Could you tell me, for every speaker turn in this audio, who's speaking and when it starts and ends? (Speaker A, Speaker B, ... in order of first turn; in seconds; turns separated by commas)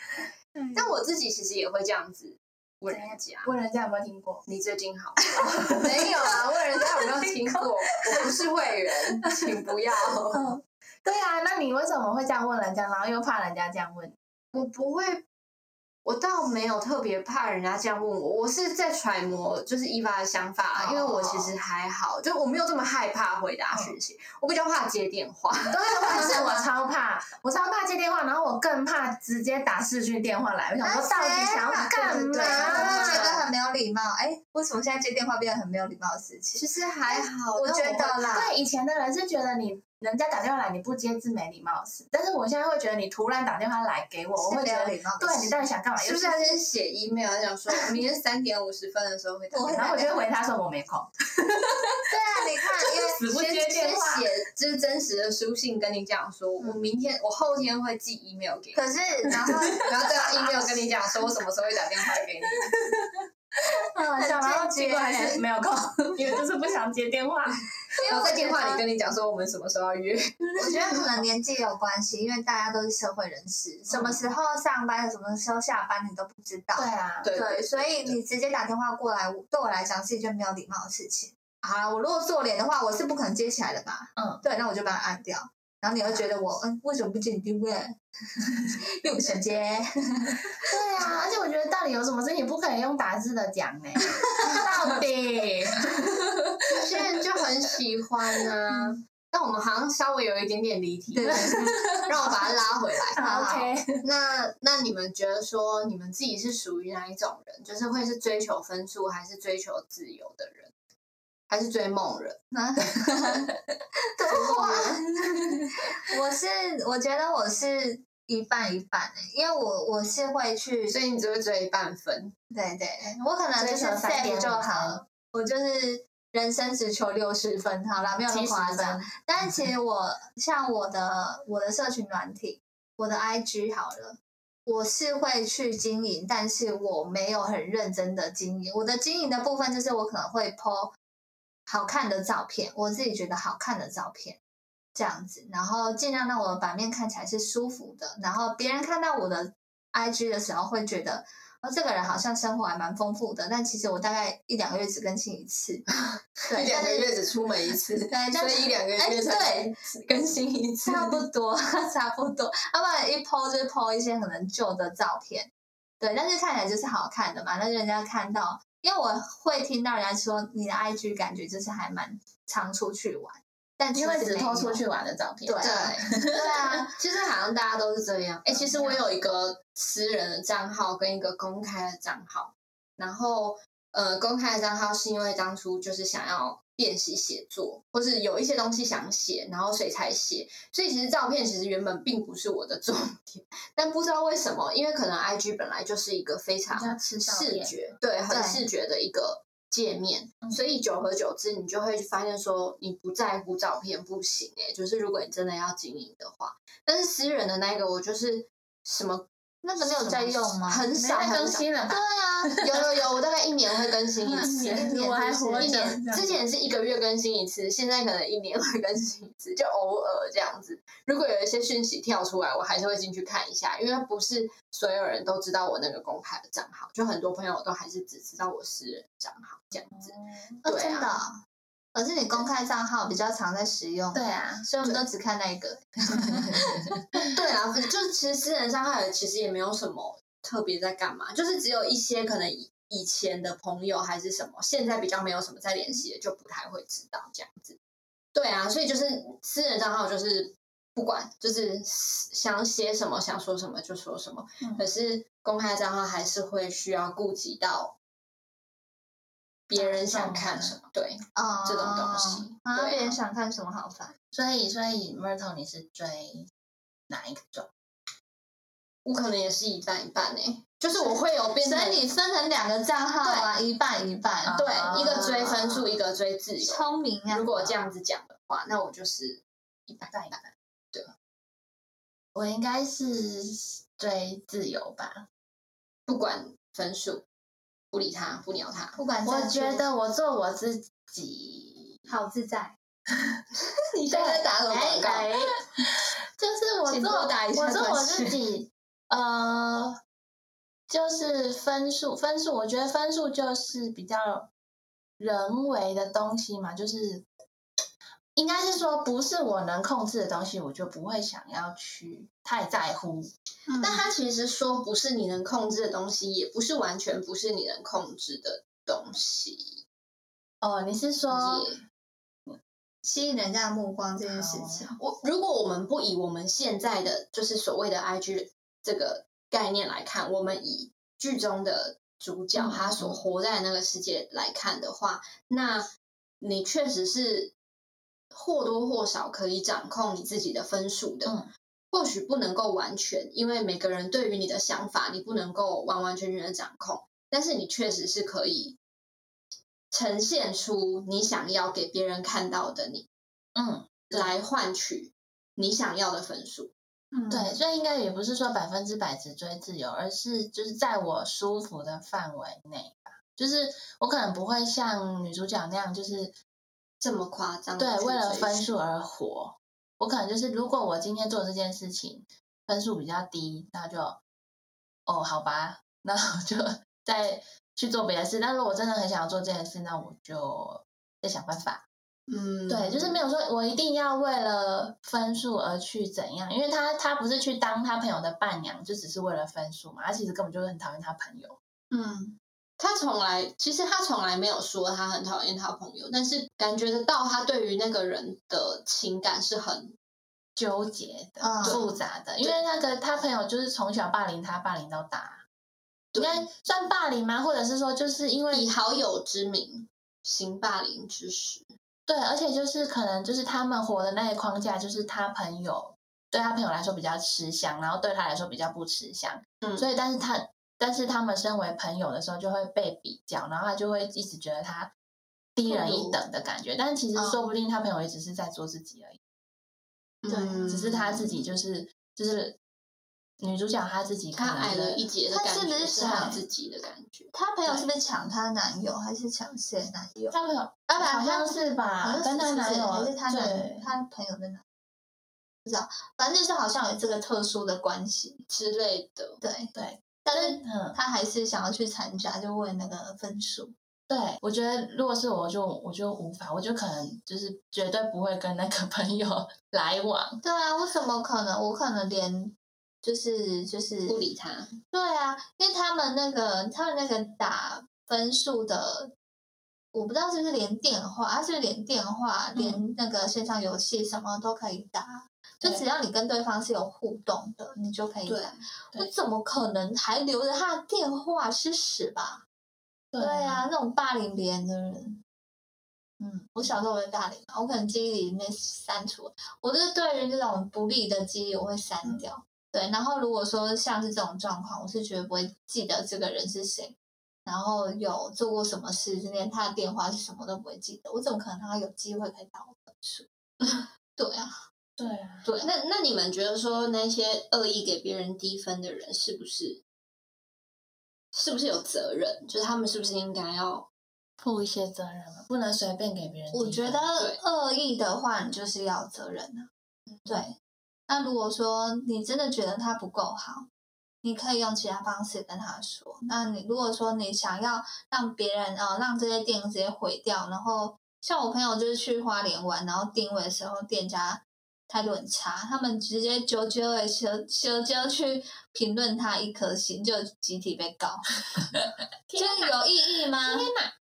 Speaker A: 0.7-3.5, Speaker B: 2.9-4.5, Speaker A: 4.5-10.5, Speaker B: 5.4-6.4, Speaker B: 10.3-14.2, Speaker A: 14.5-15.2, Speaker A: 16.1-26.6, Speaker C: 20.8-21.5, Speaker B: 25.7-33.4, Speaker C: 30.8-38.5, Speaker A: 32.4-33.4, Speaker A: 36.5-38.5, Speaker B: 38.3-46.5, Speaker C: 44.4-45.6, Speaker A: 46.0-49.9, Speaker C: 49.5-50.2, Speaker B: 49.7-52.0, Speaker C: 52.1-53.2, Speaker B: 52.9-54.3, Speaker A: 53.3-62.7, Speaker C: 58.8-60.8, Speaker B: 64.0-67.5, Speaker C: 64.0-65.4, Speaker C: 68.0-68.8, Speaker A: 68.1-70.8, Speaker C: 70.6-88.5, Speaker B: 76.8-77.3, Speaker A: 77.2-78.2, Speaker B: 84.2-84.4, Speaker C: 89.0-90.5, Speaker B: 90.7-96.5, Speaker C: 94.4-94.7, Speaker A: 96.7-103.2, Speaker C: 101.1-101.9, Speaker B: 101.3-102.0, Speaker B: 103.2-104.0, Speaker C: 103.2-103.7, Speaker A: 104.0-110.7, Speaker A: 111.5-112.4, Speaker C: 112.5-113.5, Speaker C: 114.2-115.0, Speaker A: 114.5-114.9, Speaker C: 116.1-121.0, Speaker A: 120.9-122.3, Speaker C: 122.5-140.9, Speaker B: 123.6-125.0, Speaker B: 128.3-129.1, Speaker C: 141.7-144.4, Speaker C: 144.9-155.9, Speaker C: 156.5-157.1, Speaker A: 156.5-161.2, Speaker C: 158.1-159.7, Speaker C: 160.8-174.8, Speaker B: 173.9-176.8, Speaker C: 175.4-176.9, Speaker A: 175.6-209.3, Speaker C: 178.5-179.0, Speaker B: 196.7-197.9, Speaker C: 198.3-198.6, Speaker C: 209.6-210.9, Speaker A: 209.8-211.7, Speaker B: 210.9-212.9, Speaker C: 211.9-212.6, Speaker A: 212.6-214.9, Speaker B: 214.2-216.4, Speaker C: 214.4-215.9, Speaker A: 215.6-230.1, Speaker B: 229.9-230.5, Speaker C: 230.6-231.4, Speaker A: 230.7-231.2, Speaker C: 231.9-236.9, Speaker B: 234.1-234.7, Speaker B: 236.2-237.2, Speaker A: 237.3-247.8, Speaker A: 248.3-258.0, Speaker A: 259.7-263.2, Speaker B: 259.9-260.8, Speaker C: 261.4-264.2, Speaker B: 264.3-266.5, Speaker B: 267.1-267.7, Speaker A: 269.1-272.0, Speaker C: 270.9-275.8, Speaker A: 273.2-273.5, Speaker B: 274.4-275.3, Speaker A: 274.5-281.1, Speaker C: 276.6-277.8, Speaker B: 280.1-280.4, Speaker B: 282.4-285.3, Speaker A: 286.1-287.2, Speaker A: 287.9-289.0, Speaker C: 289.0-289.9, Speaker B: 289.2-292.0, Speaker C: 292.1-292.8, Speaker A: 293.9-295.3, Speaker B: 294.1-300.0, Speaker A: 296.9-298.3, Speaker B: 300.9-304.5, Speaker B: 305.2-307.2, Speaker B: 308.4-313.3, Speaker C: 313.7-314.1, Speaker A: 313.8-319.8, Speaker B: 320.6-321.8, Speaker A: 321.3-321.8, Speaker C: 323.0-325.0, Speaker B: 324.2-325.0, Speaker A: 325.0-335.9, Speaker A: 336.4-337.5, Speaker A: 338.3-341.3, Speaker A: 341.9-348.8, Speaker A: 349.9-353.1, Speaker B: 353.6-354.3, Speaker A: 354.1-356.7, Speaker C: 357.1-357.6, Speaker B: 357.3-366.4, Speaker A: 367.0-368.7, Speaker B: 367.8-374.2, Speaker B: 375.1-381.9, Speaker A: 382.3-383.2, Speaker B: 382.7-391.6, Speaker C: 391.9-392.4, Speaker A: 392.8-399.9, Speaker B: 400.6-405.4, Speaker C: 401.4-401.8, Speaker A: 406.1-406.5, Speaker B: 406.2-408.7, Speaker A: 408.5-411.7, Speaker B: 412.1-424.9, Speaker B: 425.6-429.2, Speaker A: 425.7-426.1, Speaker C: 425.7-426.0, Speaker C: 427.1-427.4, Speaker A: 430.2-431.3, Speaker C: 430.3-430.6, Speaker B: 430.6-432.6, Speaker B: 433.4-435.1, Speaker A: 434.4-437.3, Speaker C: 435.3-436.4, Speaker B: 436.0-436.4, Speaker C: 437.3-440.4, Speaker B: 440.3-443.9, Speaker C: 440.9-444.6, Speaker C: 445.6-448.4, Speaker A: 448.5-449.4, Speaker C: 449.4-449.7, Speaker B: 449.7-451.0, Speaker C: 450.2-453.7, Speaker B: 454.1-460.4, Speaker C: 460.4-464.3, Speaker A: 464.1-464.7, Speaker C: 464.9-469.1, Speaker C: 469.9-482.4, Speaker A: 478.3-478.6, Speaker B: 483.1-483.6, Speaker C: 483.2-485.2, Speaker C: 486.2-504.6, Speaker B: 505.0-505.5, Speaker A: 505.5-509.8, Speaker A: 511.3-513.9, Speaker B: 514.4-517.0, Speaker C: 516.5-519.7, Speaker C: 520.3-520.6, Speaker C: 521.1-523.7, Speaker C: 524.2-541.7, Speaker B: 542.3-542.8, Speaker C: 542.4-543.7, Speaker B: 543.3-543.9